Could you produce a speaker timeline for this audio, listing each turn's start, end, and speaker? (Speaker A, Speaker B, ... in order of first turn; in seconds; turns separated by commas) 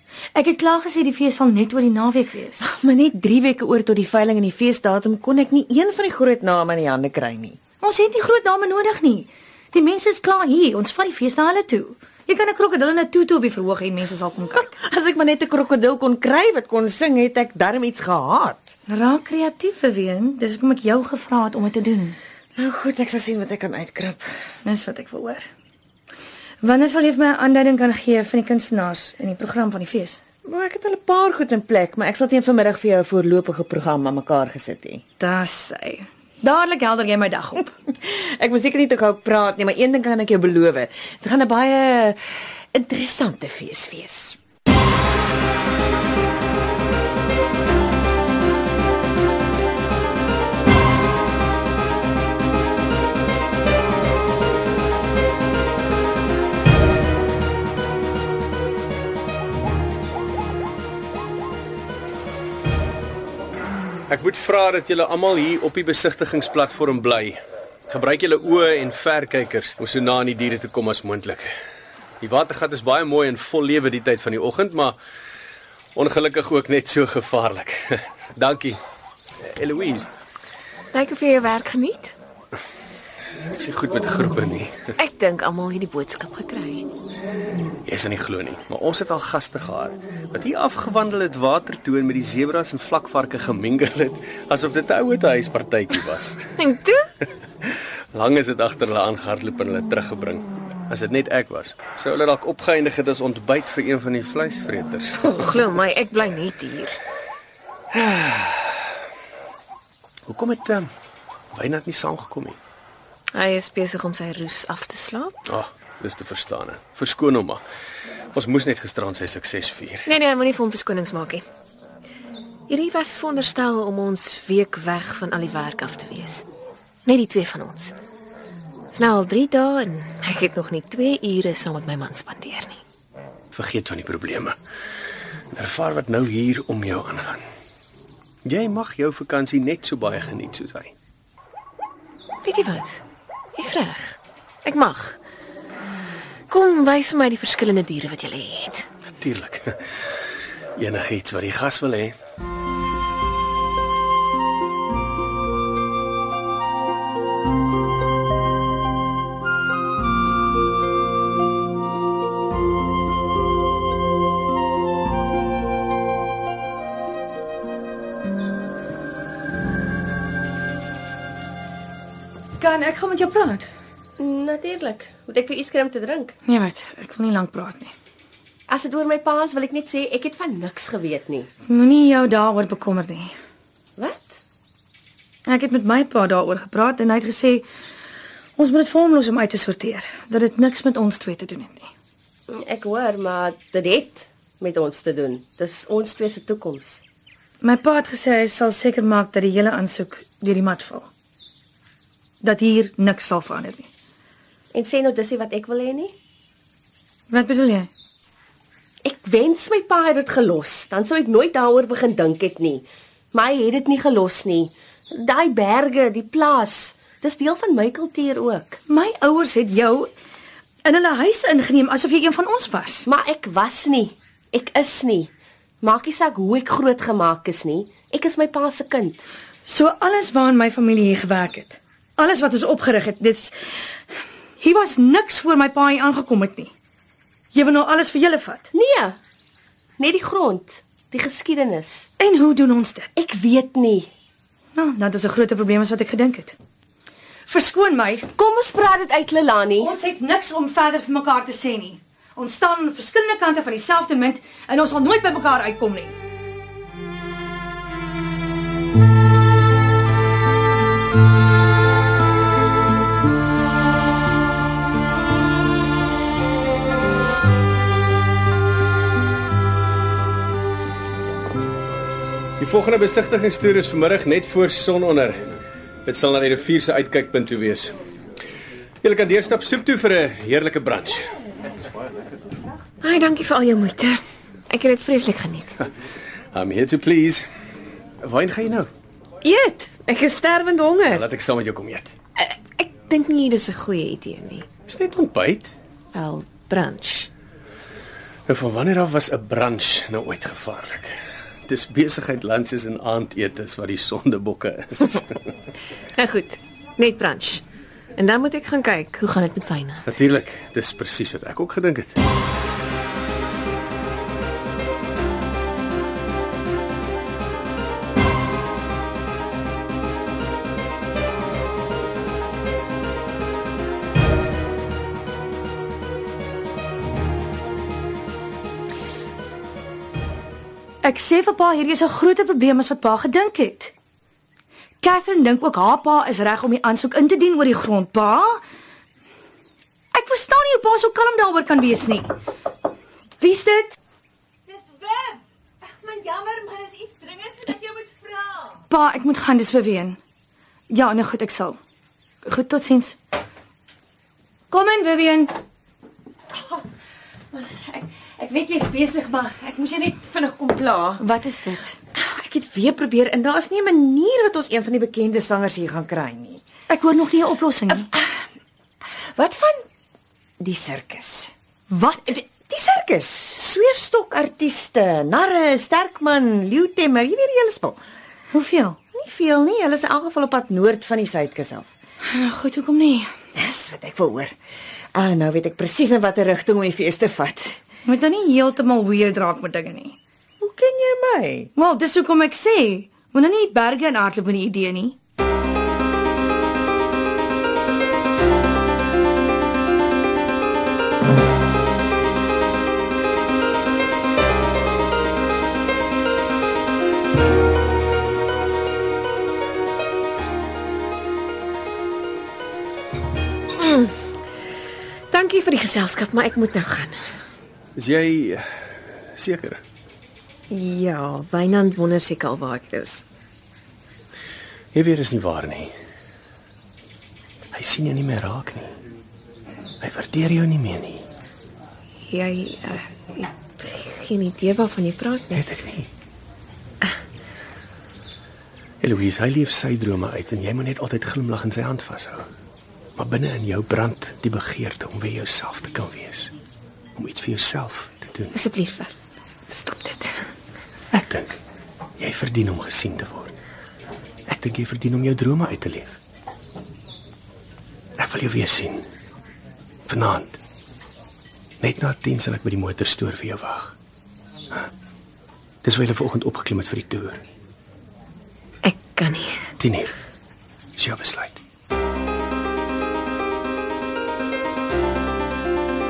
Speaker A: 0.3-2.6, Speaker B: 2.6-7.6, Speaker A: 7.8-14.7, Speaker B: 14.6-18.7, Speaker A: 18.9-22.2, Speaker B: 22.6-24.3, Speaker A: 24.6-25.4, Speaker A: 26.6-30.2, Speaker B: 30.4-35.0, Speaker A: 35.2-37.7, Speaker B: 37.9-42.2, Speaker B: 42.7-44.4, Speaker C: 64.1-71.5, Speaker C: 72.2-75.0, Speaker C: 75.9-78.8, Speaker C: 79.4-80.1, Speaker D: 80.9-82.1, Speaker C: 83.5-84.8, Speaker D: 85.0-86.8, Speaker C: 87.8-96.5, Speaker D: 96.6-97.0, Speaker C: 97.6-105.2, Speaker D: 105.2-107.0, Speaker C: 107.9-108.8, Speaker C: 110.3-110.9, Speaker C: 111.5-112.6, Speaker D: 113.3-115.4, Speaker C: 115.5-117.6, Speaker C: 118.3-120.1, Speaker D: 120.0-121.4, Speaker D: 122.7-126.4, Speaker D: 127.0-128.0, Speaker D: 128.9-132.8, Speaker C: 133.5-134.6, Speaker C: 135.5-137.4, Speaker C: 138.4-140.9, Speaker D: 142.4-143.0, Speaker D: 143.6-145.2, Speaker D: 146.5-148.8, Speaker C: 149.2-149.8, Speaker C: 150.8-152.1, Speaker A: 172.6-173.7, Speaker E: 174.2-176.3, Speaker A: 176.4-177.9, Speaker E: 178.7-181.5, Speaker A: 181.7-183.3, Speaker E: 184.0-184.4, Speaker A: 185.4-187.7, Speaker A: 188.6-191.9, Speaker E: 192.5-197.0, Speaker A: 197.6-201.1, Speaker A: 202.4-203.9, Speaker E: 204.7-206.1, Speaker A: 207.3-207.9, Speaker E: 209.0-218.8, Speaker A: 218.9-220.1, Speaker A: 220.8-223.1, Speaker E: 223.1-225.3, Speaker E: 225.8-229.2, Speaker A: 229.7-233.5, Speaker A: 234.6-236.7, Speaker A: 237.5-238.7, Speaker E: 238.7-239.2, Speaker E: 240.0-242.1, Speaker A: 242.2-243.1, Speaker E: 243.2-244.1, Speaker A: 244.7-246.6, Speaker A: 247.5-248.3, Speaker E: 248.3-249.9, Speaker A: 249.8-256.1, Speaker C: 272.6-275.5, Speaker C: 276.0-278.0, Speaker C: 279.0-281.3, Speaker D: 283.0-285.8, Speaker C: 286.5-287.4, Speaker C: 288.2-288.9, Speaker D: 289.4-291.3, Speaker C: 291.1-292.1, Speaker D: 292.4-294.6, Speaker C: 294.9-295.7, Speaker D: 296.1-297.3, Speaker C: 298.5-301.1, Speaker C: 301.7-305.5, Speaker D: 306.2-307.6, Speaker D: 308.1-310.1, Speaker C: 310.1-312.2, Speaker A: 331.0-333.9, Speaker A: 335.0-338.6, Speaker A: 340.1-342.3, Speaker A: 343.4-343.9, Speaker B: 344.7-348.8, Speaker A: 348.9-350.2, Speaker A: 350.9-351.8, Speaker A: 352.4-353.2, Speaker A: 354.7-355.5, Speaker B: 356.6-356.8, Speaker B: 357.5-361.2, Speaker A: 361.2-361.9, Speaker B: 362.1-366.6, Speaker A: 366.9-368.1, Speaker B: 367.9-368.4, Speaker B: 369.3-369.8, Speaker B: 370.6-371.5, Speaker A: 371.9-372.4, Speaker B: 372.3-378.0, Speaker A: 378.5-379.0, Speaker B: 379.1-381.9, Speaker A: 382.2-383.3, Speaker B: 383.6-384.5, Speaker B: 385.1-387.8, Speaker A: 388.1-390.2, Speaker B: 390.6-391.7, Speaker A: 391.8-395.2, Speaker D: 413.8-414.1, Speaker D: 415.3-417.2, Speaker C: 417.9-419.8, Speaker D: 420.7-423.2, Speaker C: 424.9-425.9, Speaker C: 427.7-428.9, Speaker C: 430.0-431.2, Speaker D: 432.2-435.7, Speaker C: 435.5-436.1, Speaker C: 439.0-442.4, Speaker C: 443.1-446.5, Speaker C: 447.1-448.5, Speaker D: 448.5-449.1, Speaker D: 449.7-450.5, Speaker C: 451.1-451.6, Speaker C: 452.2-453.5, Speaker C: 454.5-456.2, Speaker C: 458.2-459.1, Speaker C: 460.1-460.6, Speaker C: 461.8-463.9, Speaker C: 465.8-467.4, Speaker D: 468.8-469.6, Speaker C: 469.8-470.1, Speaker C: 470.9-471.6